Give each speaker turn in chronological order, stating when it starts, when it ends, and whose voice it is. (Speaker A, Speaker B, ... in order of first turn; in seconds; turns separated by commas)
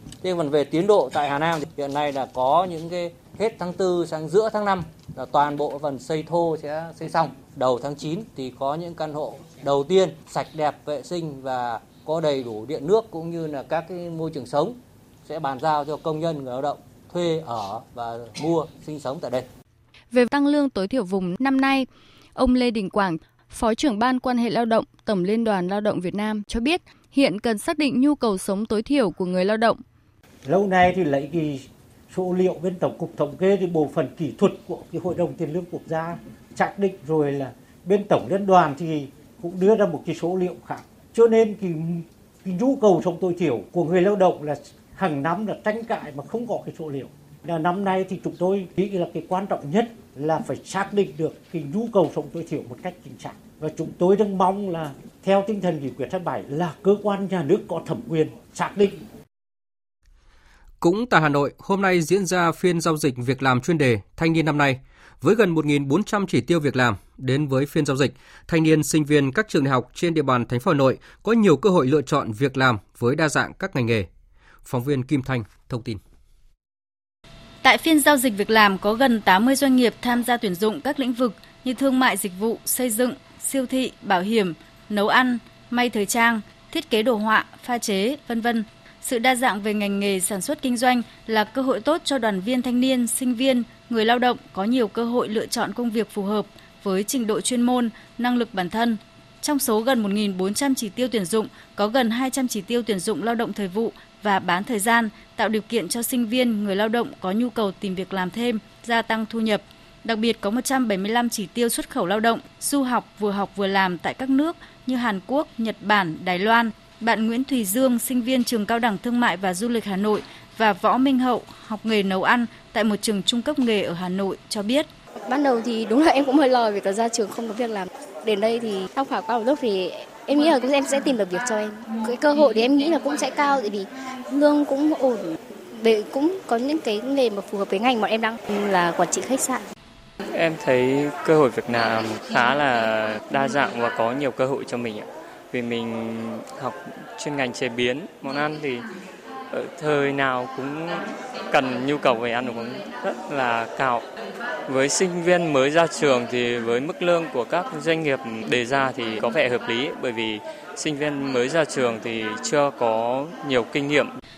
Speaker A: 0.2-19.5, Speaker B: 20.1-29.8, Speaker C: 30.4-59.0, Speaker D: 60.8-74.1, Speaker D: 74.6-76.0, Speaker E: 77.6-124.9, Speaker F: 125.3-135.2, Speaker F: 135.8-139.6, Speaker G: 140.3-148.8, Speaker G: 149.5-154.0, Speaker G: 154.7-164.1